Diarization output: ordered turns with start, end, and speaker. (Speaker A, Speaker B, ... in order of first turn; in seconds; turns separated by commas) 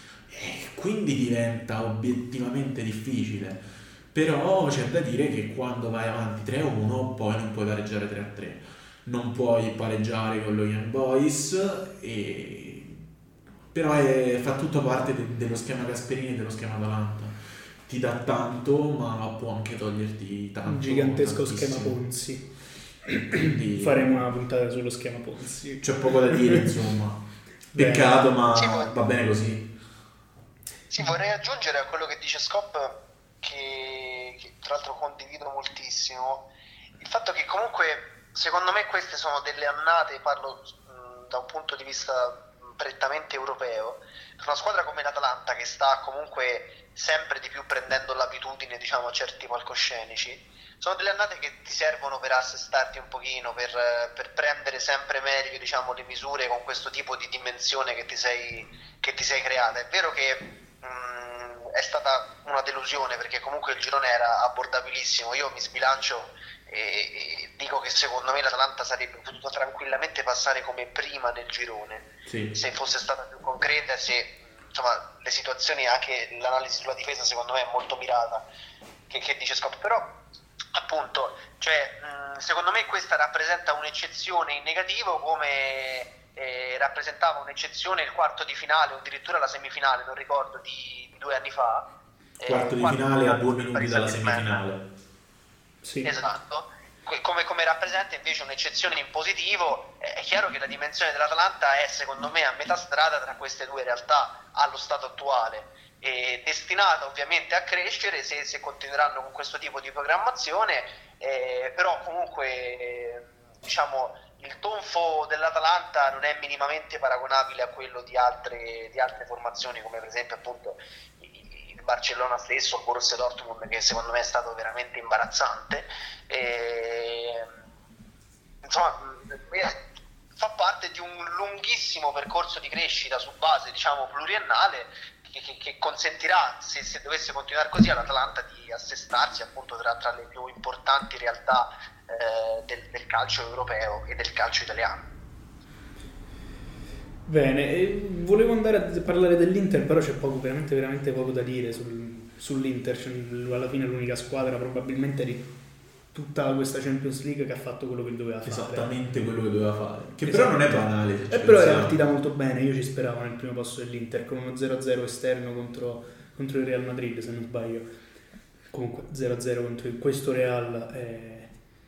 Speaker A: 0.3-13.0, Speaker A: 13.7-22.0, Speaker B: 20.7-22.5, Speaker B: 23.1-26.6, Speaker A: 23.3-24.2, Speaker A: 25.8-29.7, Speaker B: 27.7-28.2, Speaker C: 28.6-28.9, Speaker C: 30.9-36.5, Speaker C: 37.0-78.5, Speaker A: 72.3-72.5, Speaker C: 79.1-80.1, Speaker C: 80.7-91.8, Speaker C: 92.4-94.6, Speaker A: 92.5-94.8, Speaker B: 95.8-96.1, Speaker C: 96.0-127.5, Speaker C: 128.6-129.8, Speaker C: 130.4-145.0, Speaker B: 147.3-155.5, Speaker B: 156.1-158.9, Speaker A: 158.4-161.9, Speaker B: 160.2-167.9, Speaker B: 168.7-171.6